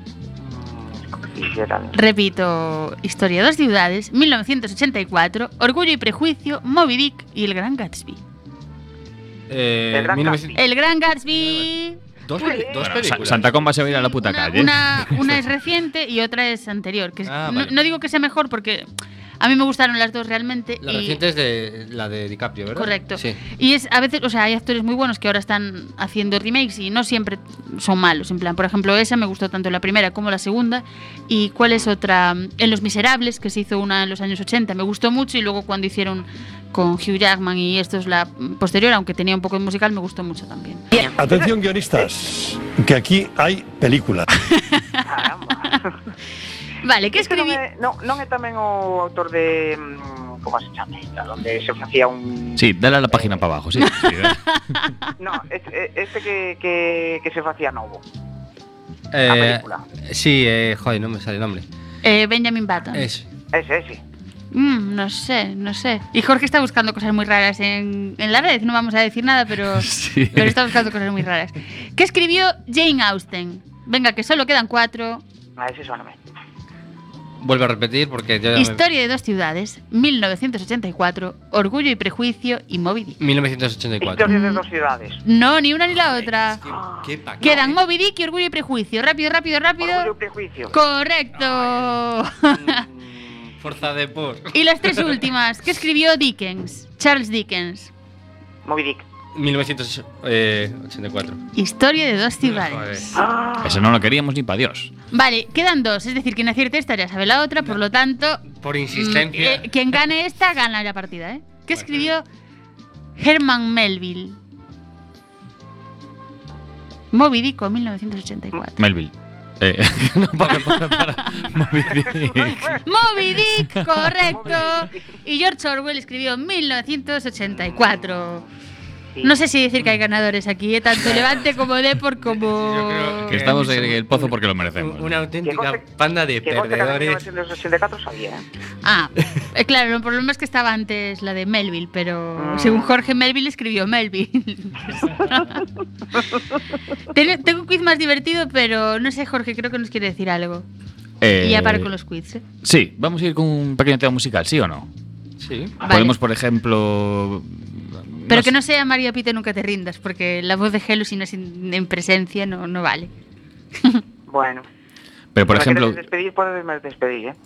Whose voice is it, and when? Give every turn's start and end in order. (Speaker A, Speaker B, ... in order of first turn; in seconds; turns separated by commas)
Speaker A: 0.4-2.0, Speaker B: 1.9-8.2, Speaker C: 9.5-10.6, Speaker A: 9.9-10.6, Speaker B: 10.6-12.6, Speaker C: 11.3-11.7, Speaker C: 12.2-13.5, Speaker A: 12.4-13.0, Speaker D: 12.8-15.3, Speaker B: 13.8-18.9, Speaker C: 17.2-17.7, Speaker B: 19.4-21.2, Speaker C: 20.8-23.4, Speaker B: 22.7-40.9, Speaker E: 41.0-44.2, Speaker B: 44.5-45.0, Speaker A: 45.0-46.0, Speaker B: 46.8-47.6, Speaker A: 47.1-53.4, Speaker D: 52.5-54.4, Speaker B: 53.8-55.1, Speaker A: 55.2-58.0, Speaker C: 59.1-61.6, Speaker A: 59.3-59.8, Speaker B: 62.0-63.1, Speaker C: 62.9-63.3, Speaker A: 63.5-64.0, Speaker B: 64.5-75.2, Speaker D: 69.7-70.7, Speaker A: 75.6-76.2, Speaker C: 77.4-78.8, Speaker B: 78.5-83.2, Speaker C: 83.2-84.3, Speaker A: 84.0-85.2, Speaker B: 84.2-84.6, Speaker B: 85.2-86.6, Speaker C: 86.2-87.8, Speaker A: 86.7-87.5, Speaker B: 87.4-90.1, Speaker A: 89.8-90.7, Speaker B: 90.7-92.8, Speaker A: 92.7-93.5, Speaker C: 93.6-95.2, Speaker B: 94.5-97.9, Speaker A: 98.6-99.0, Speaker C: 99.3-101.4, Speaker B: 101.5-103.2, Speaker C: 102.4-103.1, Speaker A: 103.1-103.9, Speaker D: 103.6-104.9, Speaker B: 105.1-112.2, Speaker C: 108.5-109.7, Speaker C: 111.7-112.1, Speaker B: 113.2-114.4, Speaker B: 117.1-118.8, Speaker D: 118.8-122.8, Speaker B: 120.5-121.5, Speaker A: 122.0-122.8, Speaker B: 122.8-128.4, Speaker A: 124.2-125.0, Speaker B: 129.2-133.6, Speaker C: 132.3-137.2, Speaker D: 133.3-135.2, Speaker A: 135.4-135.8, Speaker A: 136.4-138.4, Speaker B: 138.8-145.6, Speaker A: 142.4-143.0, Speaker B: 147.1-150.7, Speaker D: 151.2-151.9, Speaker B: 151.4-152.4, Speaker D: 152.6-154.9, Speaker C: 155.4-155.7, Speaker D: 155.8-158.5, Speaker B: 155.8-156.2, Speaker B: 158.3-163.1, Speaker A: 164.3-164.7, Speaker D: 165.3-166.0, Speaker A: 165.5-167.4